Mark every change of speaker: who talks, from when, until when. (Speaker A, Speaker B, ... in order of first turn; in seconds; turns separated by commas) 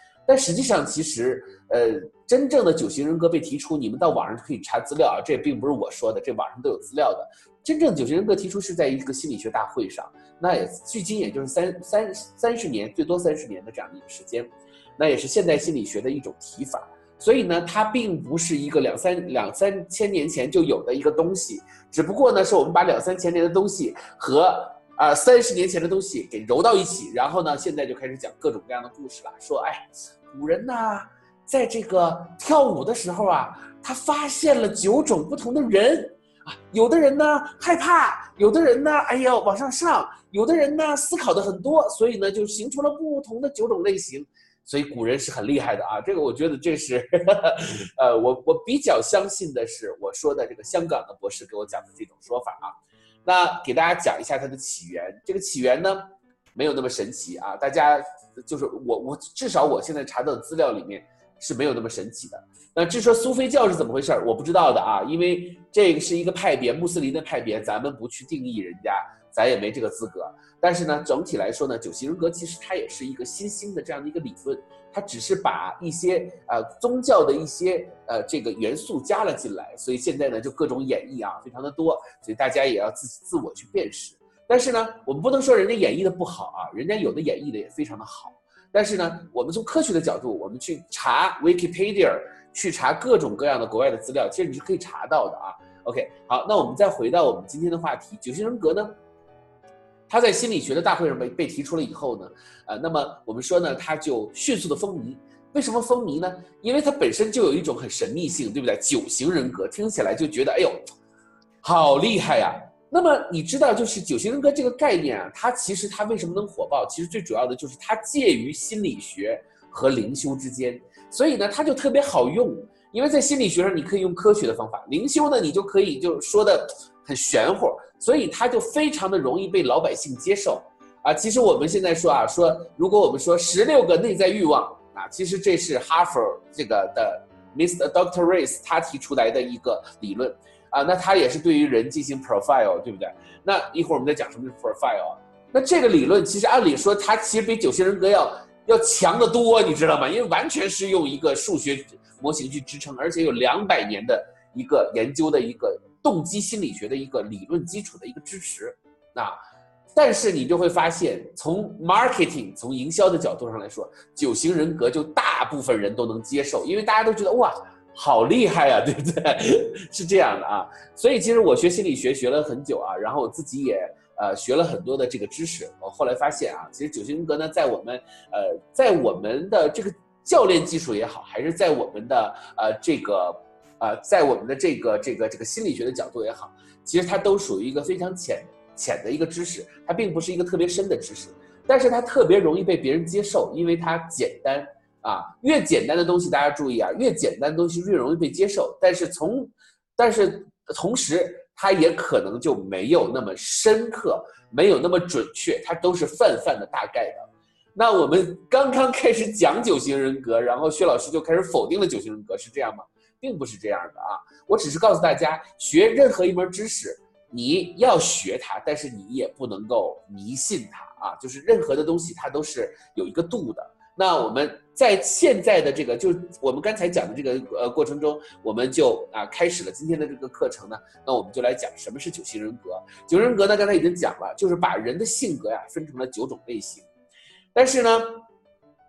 Speaker A: 0.3-98.9, Speaker A: 100.1-110.8, Speaker A: 111.6-159.4, Speaker A: 159.9-236.9, Speaker A: 237.5-238.2